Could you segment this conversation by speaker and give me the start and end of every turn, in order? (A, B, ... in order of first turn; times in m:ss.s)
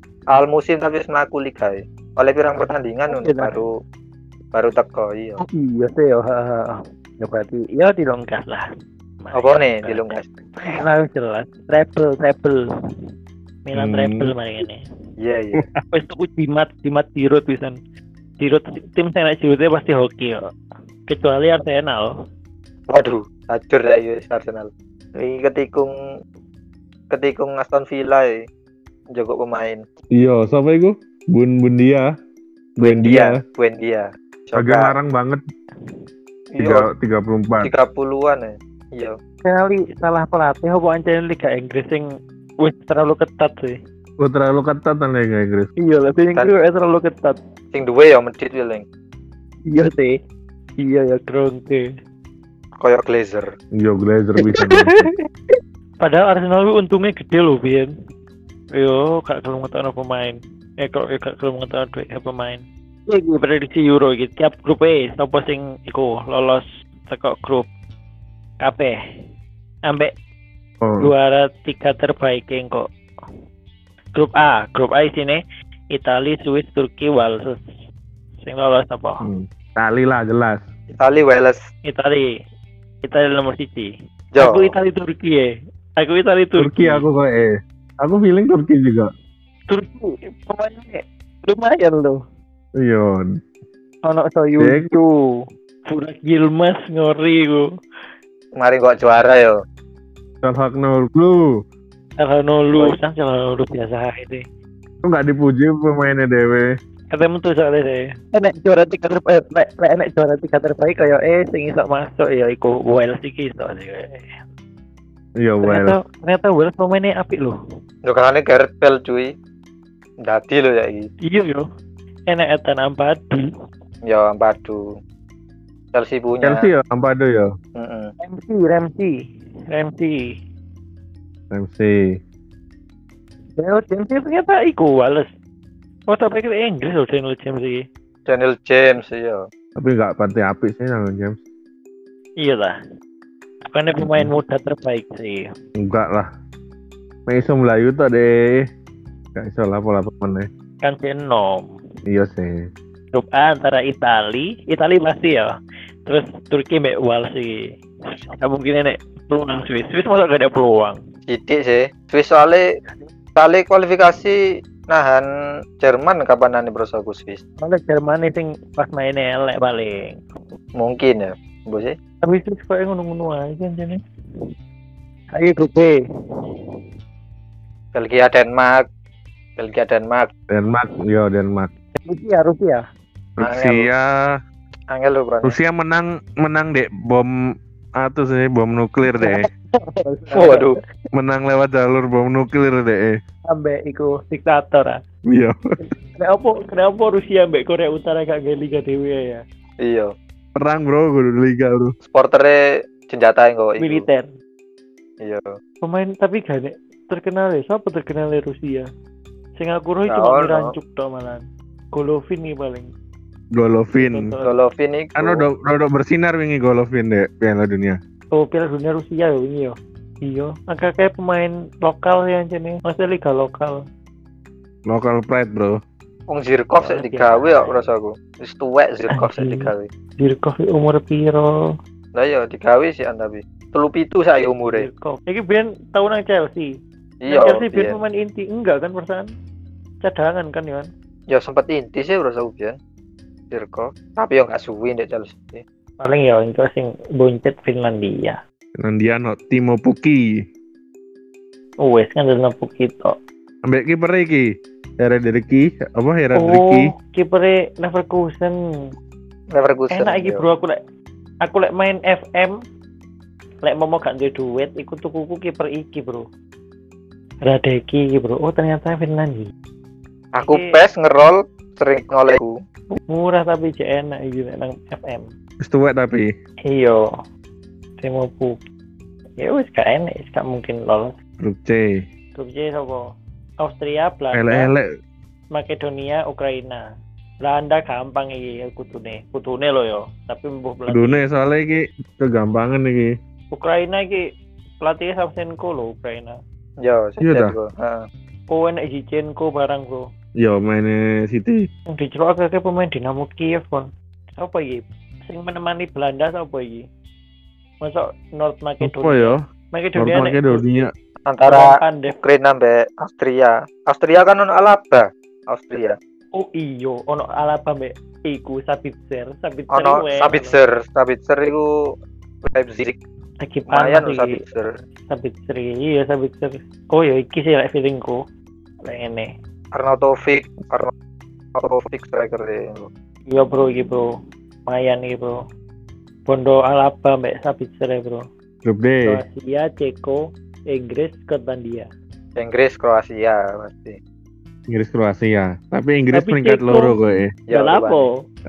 0:00.3-0:03.7 A
0:03.1-0:03.6 B
0:04.5-0:05.4 A
0:05.4-0:08.6 B
0:09.2-0:10.1 B
0:09.3-0:10.4 A
0:10.8-0:12.6 B
0:13.6-0:14.8 B
0:13.8-0:14.3 C
0:15.2-0:15.6 A
0:15.6-0:15.8 C
0:15.9-0:17.8 B
0:18.4-0:20.4 B
0:21.1-0:22.1 B
0:22.9-0:25.9 A
0:27.1-0:28.4 A
0:29.1-0:29.8 A
0:30.1-0:32.1 C
0:32.8-0:33.4 C
0:32.8-0:34.9 A
0:34.6-0:35.4 C
0:36.5-0:36.9 A
0:36.6-0:37.7 C
0:37.6-0:39.2 A
0:39.4-0:42.1 B
0:42.6-0:43.8 B
0:44.2-0:45.7 C
0:45.8-0:47.4 B
0:47.7-0:48.8 A
0:49.7-0:50.2 B
0:50.8-0:51.8 B
0:52.8-0:53.5 A
0:53.8-0:55.1 C
0:56.0-0:57.9 B
0:58.7-1:07.7 B
1:08.6-1:09.0 B
1:09.9-1:10.1 B
1:10.8-1:11.1 C
1:11.0-1:12.8 B
1:14.2-1:15.4 B
1:15.9-1:17.6 B
1:18.4-1:19.2 B
1:19.2-1:20.7 C
1:21.0-1:21.6 A
1:21.9-1:22.3 B
1:23.0-1:27.0 B
1:24.3-1:24.7 A
1:26.6-1:29.1 C
1:29.7-1:32.2 B
1:32.8-1:33.4 C
1:34.1-1:35.1 B
1:34.6-1:34.9 C
1:35.9-1:37.6 B
1:38.6-1:39.6 A
1:40.4-1:41.6 C
1:42.2-1:44.4 B
1:45.0-1:46.7 C
1:47.1-1:54.4 B
1:55.4-1:56.0 C
1:55.6-1:57.5 B
1:58.1-1:59.3 A
2:00.2-2:01.1 A
2:01.3-2:01.6 B
2:02.3-2:03.4 B
2:04.1-2:04.8 A
2:05.9-2:06.7 A
2:06.4-2:07.5 C
2:07.8-2:08.1 A
2:08.2-2:09.1 B
2:09.7-2:10.2 B
2:11.5-2:12.2 C
2:13.6-2:15.3 B
2:16.1-2:17.8 B
2:18.2-2:19.5 A
2:19.8-2:21.4 C
2:22.4-2:22.8 B
2:23.7-2:25.5 B
2:24.0-2:24.3 C
2:25.8-2:26.3 C
2:27.3-2:28.7 C
2:29.3-2:30.5 C
2:30.8-2:31.7 B
2:32.1-2:32.7 C
2:33.1-2:37.6 B
2:38.4-2:41.0 B
2:41.3-2:42.6 A
2:43.4-2:44.4 A
2:44.9-2:45.3 A
2:45.8-2:47.4 A
2:47.6-2:50.2 B
2:50.8-2:51.9 A
2:52.2-2:54.0 B
2:55.3-2:56.0 B
2:57.9-2:58.8 A
2:59.6-3:00.3 A
3:00.5-3:01.7 C
3:02.0-3:02.8 B
3:03.4-3:04.4 C
3:03.4-3:03.9 A
3:04.9-3:05.6 A
3:05.4-3:07.3 C
3:08.0-3:09.5 C
3:09.2-3:10.7 B
3:10.3-3:10.7 A
3:11.1-3:13.1 C
3:13.5-3:15.0 B
3:15.3-3:15.6 C
3:15.9-3:19.4 B
3:19.8-3:20.1 A
3:20.5-3:21.9 C
3:22.1-3:24.0 A
3:23.8-3:24.3 B
3:25.2-3:25.6 A
3:25.8-3:28.9 B
3:29.6-3:32.9 B
3:30.1-3:30.7 A
3:33.5-3:34.3 C
3:33.9-3:34.6 B
3:34.4-3:35.4 A
3:35.2-3:38.0 C
3:38.3-3:43.8 B
3:44.9-3:45.8 C
3:46.3-3:49.9 A
3:46.8-3:47.8 B
3:49.1-3:51.5 B
3:52.1-3:54.9 A
3:54.6-3:56.7 B
3:57.2-3:58.0 A
3:57.3-3:59.3 B
4:00.0-4:00.9 B
4:01.3-4:02.8 A
4:03.5-4:05.6 A
4:06.0-4:08.4 B
4:08.8-4:10.3 C
4:11.8-4:13.2 B
4:13.6-4:16.9 C
4:16.3-4:18.6 B
4:19.5-4:20.4 A
4:19.9-4:20.8 B
4:21.4-4:22.6 B
4:23.6-4:26.2 B
4:27.4-4:29.5 B
4:30.3-4:32.5 A
4:30.4-4:30.8 B
4:32.9-4:35.3 B
4:35.6-4:36.3 C
4:36.6-4:37.0 B
4:38.0-4:38.6 B
4:39.4-4:41.2 B
4:41.4-4:42.0 C
4:42.3-4:43.0 B
4:43.6-4:44.7 B
4:44.3-4:44.9 C
4:45.5-4:46.8 B
4:47.4-4:51.2 B
4:50.9-4:53.1 C
4:53.5-4:54.2 B
4:54.8-4:56.4 B
4:56.8-4:58.1 A
4:57.2-4:57.5 C
4:58.5-5:00.0 B
5:00.4-5:01.6 C
5:01.9-5:06.8 B
5:07.8-5:10.6 B
5:08.8-5:09.4 C
5:10.0-5:10.9 C
5:11.3-5:11.7 A
5:11.4-5:12.2 B
5:12.2-5:16.0 A
5:16.3-5:20.6 B
5:19.7-5:21.7 A
5:22.5-5:23.0 A
5:23.4-5:24.3 B
5:23.7-5:24.7 A
5:25.1-5:28.2 B
5:28.8-5:29.3 B
5:29.7-5:30.9 A
5:31.6-5:32.9 A
5:33.3-5:34.0 B
5:34.7-5:35.4 B
5:36.2-5:38.2 B
5:38.6-5:39.2 C
5:39.0-5:41.9 B
5:42.4-5:44.0 A
5:44.7-5:47.3 C
5:46.1-5:47.0 B
5:47.5-5:48.1 A
5:47.5-5:48.2 B